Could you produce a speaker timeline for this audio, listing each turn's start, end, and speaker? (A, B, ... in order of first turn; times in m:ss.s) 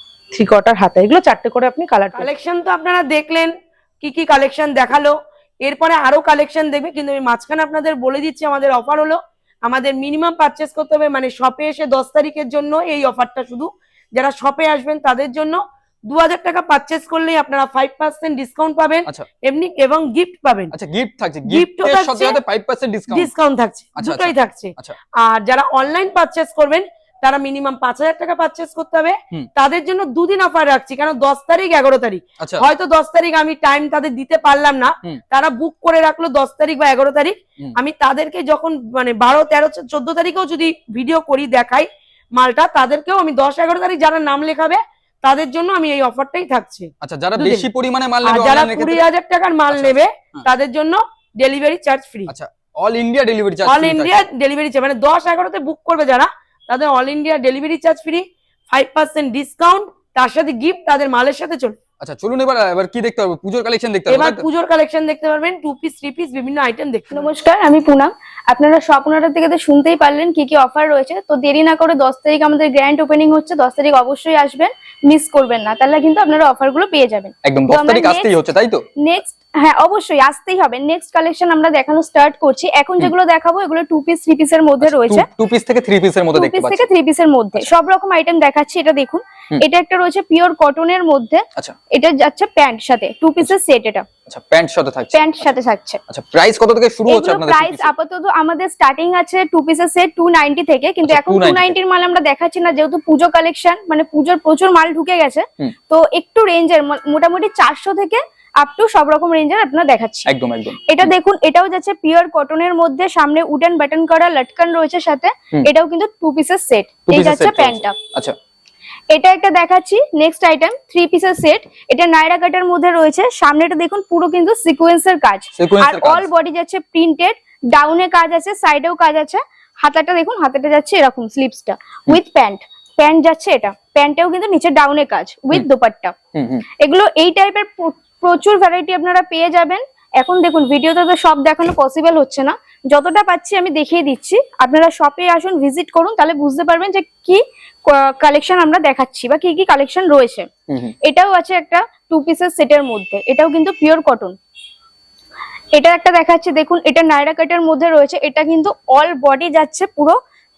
0:00.3-0:02.3 A
0:02.2-0:20.7 B
0:20.7-0:23.3 C
0:21.5-0:22.4 B
0:23.1-0:47.7 B
0:24.0-0:25.0 C
0:32.4-0:32.6 C
0:47.0-0:49.0 C
0:48.2-0:52.3 B
0:49.7-0:50.4 C
0:52.3-0:54.2 C
0:53.6-1:01.8 B
1:02.0-1:04.4 C
1:04.1-1:07.3 B
1:07.1-1:18.3 D
1:17.4-1:18.8 C
1:19.0-1:25.3 D
1:24.8-1:26.8 C
1:26.3-1:34.0 D
1:34.3-1:35.5 C
1:35.1-1:36.0 D
1:36.1-1:37.9 C
1:37.1-1:50.3 D
1:41.0-1:41.8 C
1:50.3-1:51.1 C
1:50.8-1:57.9 D
1:57.1-1:58.3 C
1:59.1-2:16.1 D
2:05.6-2:06.3 C
2:16.3-2:16.6 C
2:16.8-2:30.5 D
2:30.7-2:30.9 C
2:31.0-2:34.4 D
2:35.7-2:40.2 D